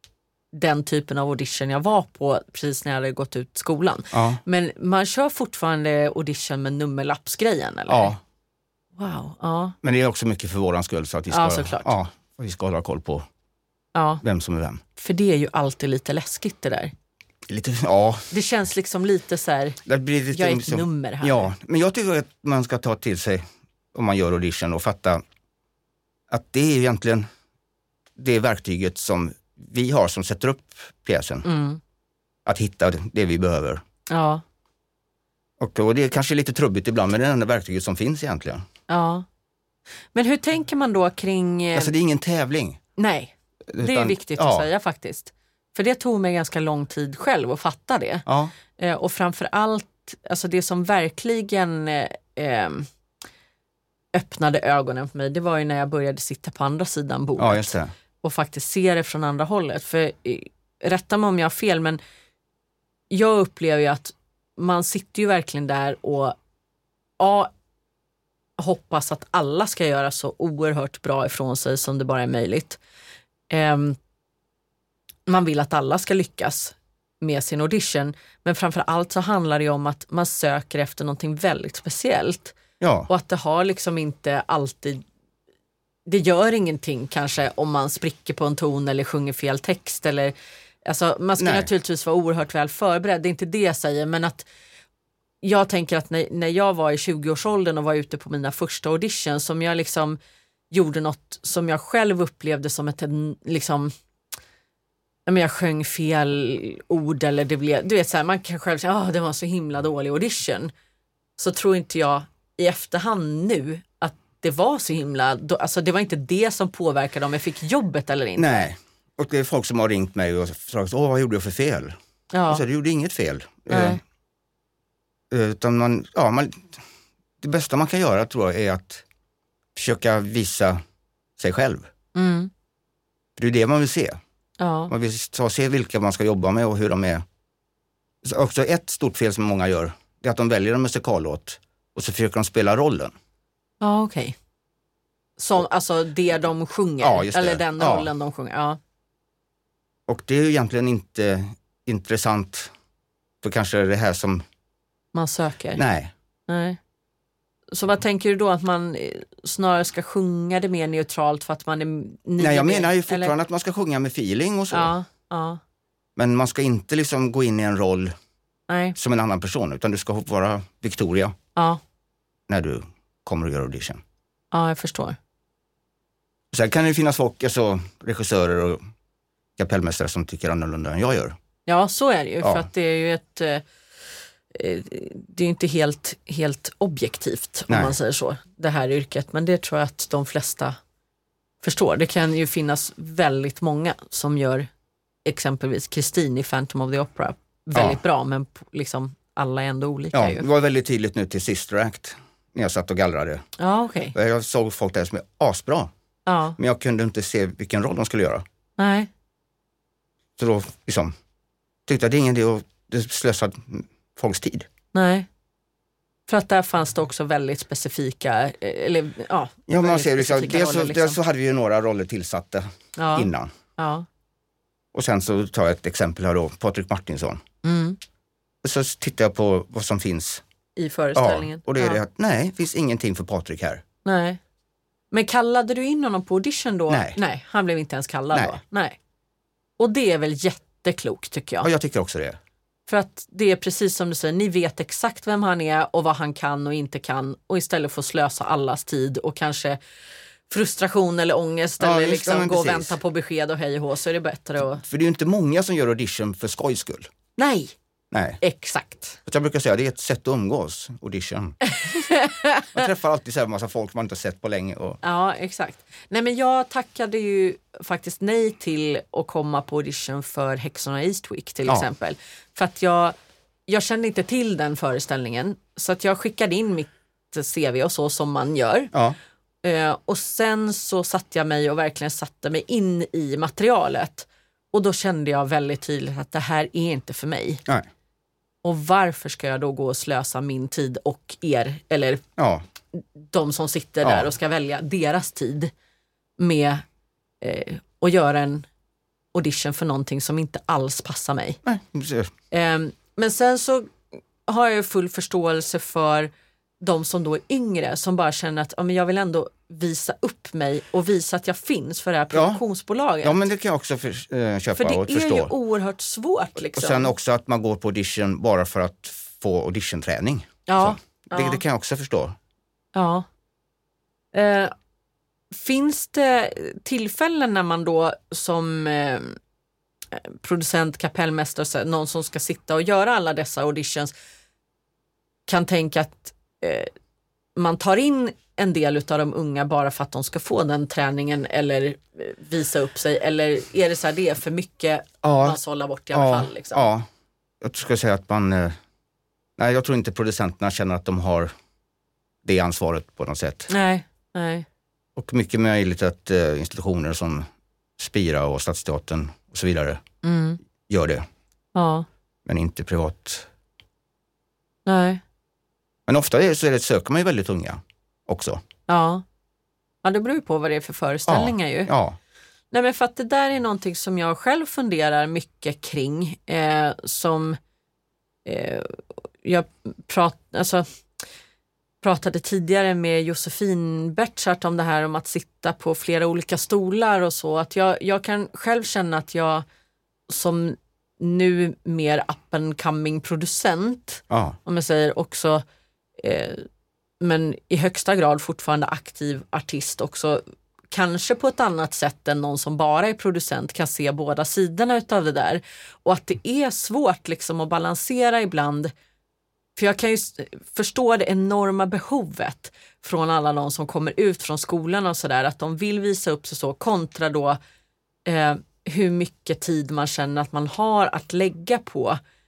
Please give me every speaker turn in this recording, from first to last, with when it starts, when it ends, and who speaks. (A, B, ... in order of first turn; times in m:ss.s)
0:00.5-0:08.2 A
0:04.1-0:04.4 B
0:07.9-0:08.2 B
0:09.0-0:09.8 A
0:09.8-0:13.3 B
0:11.3-0:11.9 A
0:14.0-0:14.2 A
0:14.2-0:14.8 B
0:15.0-0:16.9 A
0:17.5-0:18.3 B
0:18.3-0:19.8 A
0:19.9-0:25.2 B
0:20.3-0:21.5 A
0:26.3-0:27.3 B
0:28.2-0:31.5 B
0:31.4-0:31.8 A
0:32.4-0:33.8 B
0:34.1-0:34.4 A
0:35.6-0:38.7 B
0:38.9-0:39.3 A
0:40.1-0:41.9 A
0:41.7-0:42.8 B
0:43.0-0:48.2 A
0:43.7-0:44.7 B
0:48.3-0:48.5 B
0:48.8-0:52.9 A
0:54.1-1:02.0 A
0:57.4-0:57.9 B
1:03.1-1:06.4 A
1:07.2-1:07.5 A
1:08.6-1:12.8 A
1:13.5-1:14.0 A
1:15.3-1:22.6 A
1:22.8-1:23.1 B
1:23.1-1:25.0 A
1:26.1-1:30.3 A
1:30.8-1:34.5 A
1:31.4-1:31.7 B
1:35.4-1:40.2 A
1:40.7-1:43.9 A
1:45.3-1:50.7 A
1:51.4-1:58.7 A
1:58.4-2:02.0 B
2:02.3-2:02.6 A
2:02.5-2:04.0 B
2:03.7-2:04.0 A
2:05.3-2:06.8 B
2:07.4-2:09.0 B
2:09.8-2:10.8 B
2:11.4-2:11.9 B
2:12.2-2:12.5 A
2:13.4-2:14.2 B
2:14.6-2:14.9 A
2:14.9-2:17.2 B
2:18.2-2:23.1 B
2:23.8-2:24.4 A
2:25.4-2:28.8 A
2:27.0-2:28.1 B
2:30.1-2:32.7 B
2:33.4-2:34.4 B
2:35.1-2:35.8 A
2:35.8-2:36.1 B
2:36.5-2:36.8 A
2:37.7-2:43.3 A
2:42.4-2:44.9 B
2:44.7-2:45.6 A
2:46.2-2:48.1 B
2:48.7-2:49.0 A
2:49.0-2:51.4 B
2:52.5-2:54.0 B
2:54.5-2:55.2 A
2:56.5-2:58.8 B
2:59.6-3:01.4 B
3:01.7-3:03.6 A
3:02.4-3:02.7 B
3:04.5-3:10.8 A
3:07.7-3:08.0 B
3:11.6-3:14.7 A
3:15.2-3:20.5 A
3:17.8-3:18.0 B
3:20.1-3:23.4 B
3:23.6-3:24.2 A
3:24.1-3:25.9 B
3:26.3-3:26.6 A
3:26.6-3:28.4 B
3:28.8-3:29.1 A
3:30.4-3:31.2 B
3:31.9-3:34.7 B
3:34.9-3:35.3 A
3:36.3-3:41.2 A
3:39.7-3:43.5 B
3:43.0-3:44.1 A
3:44.9-3:47.4 B
3:47.6-3:48.0 A
3:48.6-3:50.4 B
3:50.8-3:52.0 A
3:51.2-3:53.8 B
3:54.0-3:54.4 A
3:55.1-3:59.0 A
3:56.9-3:57.2 B
3:58.3-3:58.6 B
3:59.8-4:01.7 A
4:01.6-4:02.4 B
4:02.9-4:09.8 A
4:10.5-4:14.8 A
4:11.8-4:13.0 B
4:14.8-4:17.1 B
4:17.4-4:17.8 A
4:18.1-4:18.4 B
4:18.4-4:19.2 A
4:19.3-4:21.6 B
4:21.6-4:22.8 A
4:22.7-4:25.0 B
4:25.0-4:33.2 A
4:33.7-4:38.9 A
4:39.6-4:47.6 A
4:48.6-4:52.2 A
4:52.4-4:52.6 B
4:53.0-4:55.7 A
4:54.0-4:54.3 B
4:56.4-4:56.8 A
4:57.4-4:58.7 A
4:59.3-5:01.6 A
5:01.6-5:02.3 B
5:02.5-5:13.4 A
5:12.3-5:12.6 B
5:13.2-5:15.5 B
5:14.8-5:17.1 A
5:16.7-5:22.4 B
5:20.7-5:21.6 A
5:23.0-5:23.3 A
5:24.3-5:24.7 A
5:25.5-5:29.4 A
5:30.1-5:34.1 A
5:35.5-5:36.9 A
5:37.6-5:46.9 A
5:45.2-5:45.6 B
5:46.1-5:47.1 B
5:47.6-5:48.8 B
5:49.6-5:51.5 B
5:52.4-5:53.7 B
5:53.7-5:54.7 A
5:55.2-5:57.5 B
5:58.0-6:00.0 B
6:00.2-6:00.6 A
6:00.9-6:01.3 B
6:01.8-6:02.1 A
6:02.5-6:03.5 B
6:04.9-6:05.2 A
6:06.1-6:08.6 B
6:08.9-6:09.2 A
6:10.0-6:11.9 A
6:11.3-6:12.2 B
6:12.7-6:17.6 A
6:18.4-6:20.9 A
6:22.0-6:29.6 A
6:30.3-6:35.6 A
6:34.3-6:34.6 B
6:36.2-6:36.7 A
6:37.2-6:48.9 A
6:49.8-6:57.6 A
6:58.2-7:02.2 A